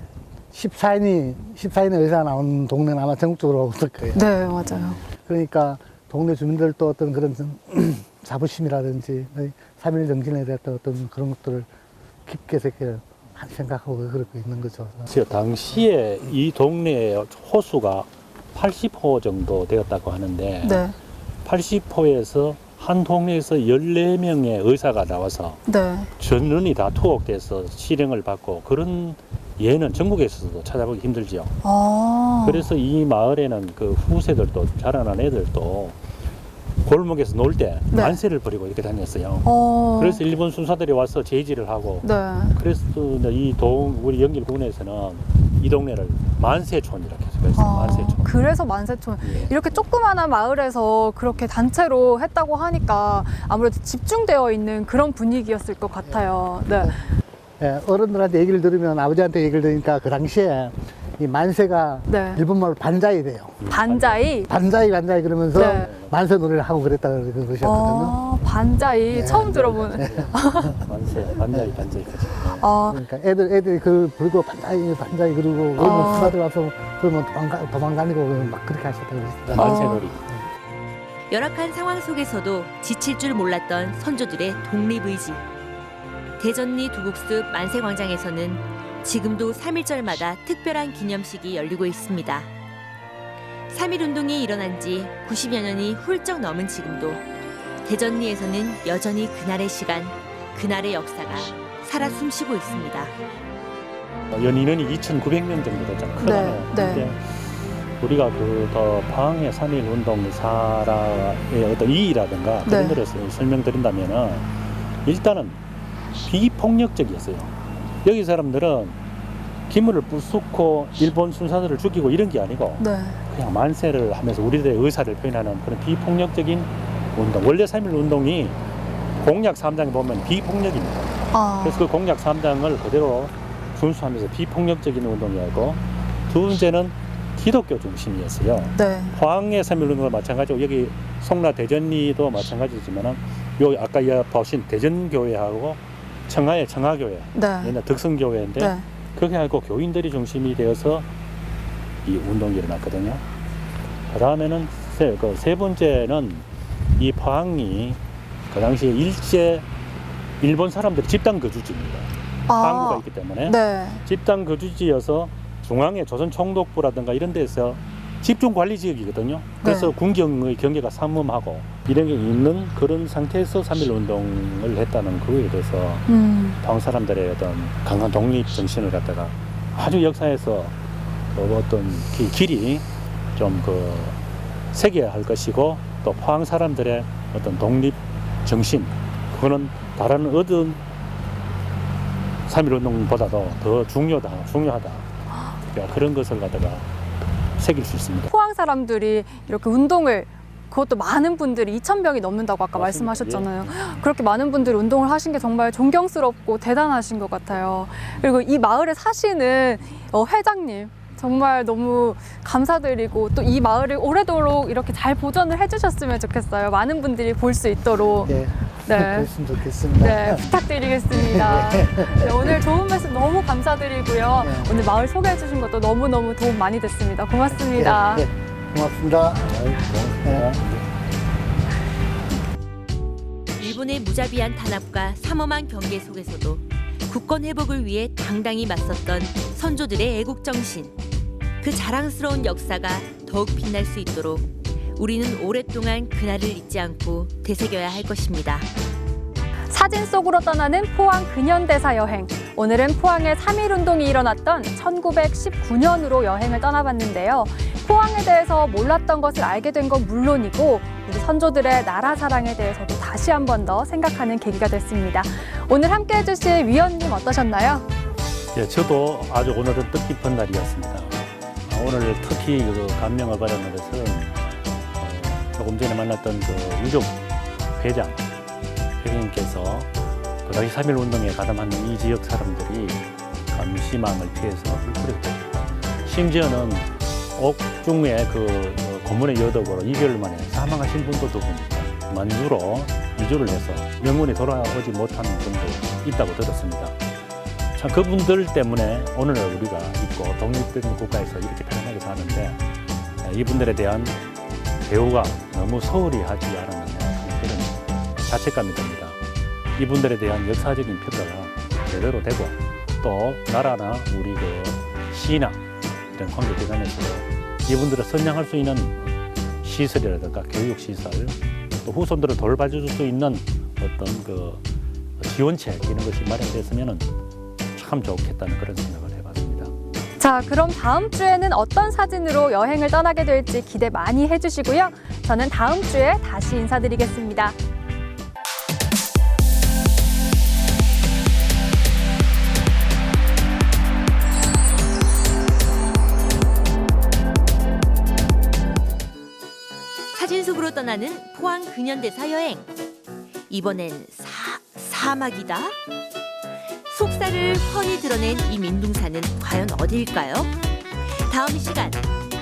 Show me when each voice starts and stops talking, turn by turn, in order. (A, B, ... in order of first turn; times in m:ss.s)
0:00.5-0:04.3 A
0:04.1-0:05.0 B
0:05.1-0:11.7 A
0:12.2-0:15.1 A
0:15.1-0:20.8 C
0:20.6-0:21.0 B
0:21.4-0:25.6 C
0:25.7-0:26.1 B
0:26.2-0:31.5 C
0:31.6-0:32.7 B
0:32.4-0:36.0 C
0:36.8-0:48.3 C
0:37.9-0:38.2 B
0:39.4-0:40.2 B
0:42.0-0:42.6 B
0:47.6-0:57.0 B
0:49.2-0:49.6 C
0:56.0-1:03.6 A
1:02.1-1:02.4 B
1:03.6-1:04.3 C
1:03.7-1:04.5 B
1:04.5-1:08.2 A
1:05.5-1:05.9 B
1:05.6-1:06.1 C
1:07.6-1:10.8 B
1:09.1-1:12.0 A
1:09.3-1:12.7 C
1:12.6-1:13.0 B
1:12.9-1:19.8 A
1:15.8-1:16.3 B
1:19.5-1:20.2 C
1:19.6-1:20.0 B
1:21.3-1:25.4 D
1:26.4-1:32.5 D
1:33.7-1:37.2 D
1:37.8-1:43.1 D
1:44.3-1:54.5 C
1:46.2-1:47.1 B
1:52.7-1:53.0 B
1:55.0-1:55.6 C
1:56.2-1:57.5 C
1:58.0-1:59.0 C
1:59.7-2:08.6 C
2:02.8-2:03.2 B
2:09.2-2:31.1 C
2:11.3-2:11.8 B
2:18.7-2:19.2 B
2:27.3-2:27.8 B
2:28.6-2:28.8 B
2:32.0-2:33.2 C
2:34.1-2:36.4 C
2:37.0-2:39.6 C
2:40.4-2:56.1 C
2:42.5-2:44.0 B
2:49.6-2:49.9 B
2:56.1-2:56.6 B
2:56.6-3:00.7 C
3:01.3-3:04.2 C
3:04.7-3:10.8 C
3:12.5-3:15.0 C
3:15.6-3:16.9 C
3:17.6-3:18.3 C
3:18.3-3:39.3 B
3:22.7-3:23.7 C
3:38.2-3:40.5 A
3:40.0-3:48.2 B
3:41.1-3:42.6 A
3:44.4-3:44.8 A
3:47.5-3:50.6 A
3:49.4-3:50.8 C
3:53.6-4:00.9 D
4:01.6-4:08.7 D
4:09.7-4:27.9 B
4:28.5-4:34.3 C
4:35.0-4:37.2 C
4:37.7-4:38.3 C
4:39.0-4:39.9 C
4:40.4-4:57.0 C
4:57.8-5:02.6 C
5:03.2-5:04.2 C
5:04.8-5:09.2 C
5:09.8-5:19.1 C
5:19.6-5:24.6 C
5:25.2-5:27.1 C
5:27.7-5:29.7 C
5:30.2-5:37.6 B
5:50.1-5:52.7 D
5:53.5-5:55.8 D
5:56.9-6:00.5 D
6:01.3-6:02.0 D